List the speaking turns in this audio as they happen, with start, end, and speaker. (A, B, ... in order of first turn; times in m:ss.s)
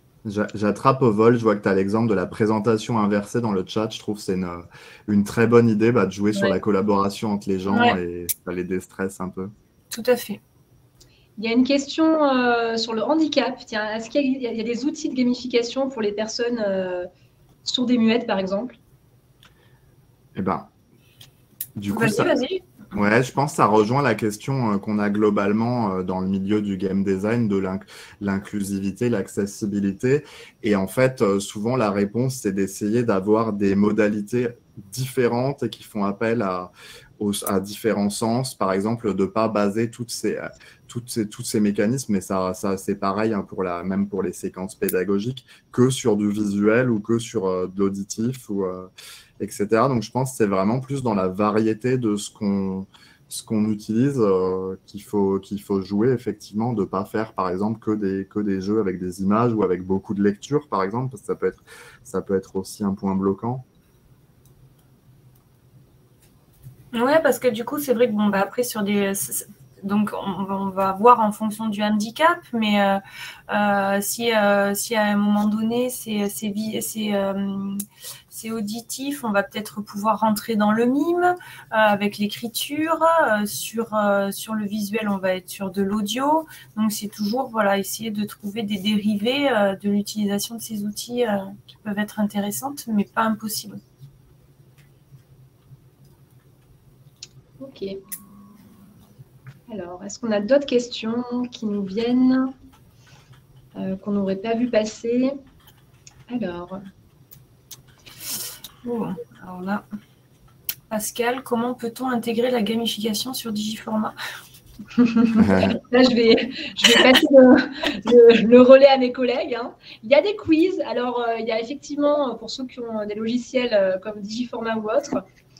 0:00.2-0:09.5 A
0:07.7-0:08.0 B
0:09.9-0:10.4 B
0:11.4-0:17.1 C
0:17.6-0:18.8 C
0:20.4-0:20.7 A
0:21.8-0:22.3 A
0:21.9-0:22.6 B
0:22.9-1:03.6 A
1:06.9-1:33.8 B
1:37.6-1:38.0 C
1:39.7-1:42.5 C
1:43.8-1:45.4 C
1:46.3-1:46.8 C
1:48.8-1:49.8 B
1:50.9-1:54.1 B
1:55.0-2:05.2 C
1:55.4-1:55.8 A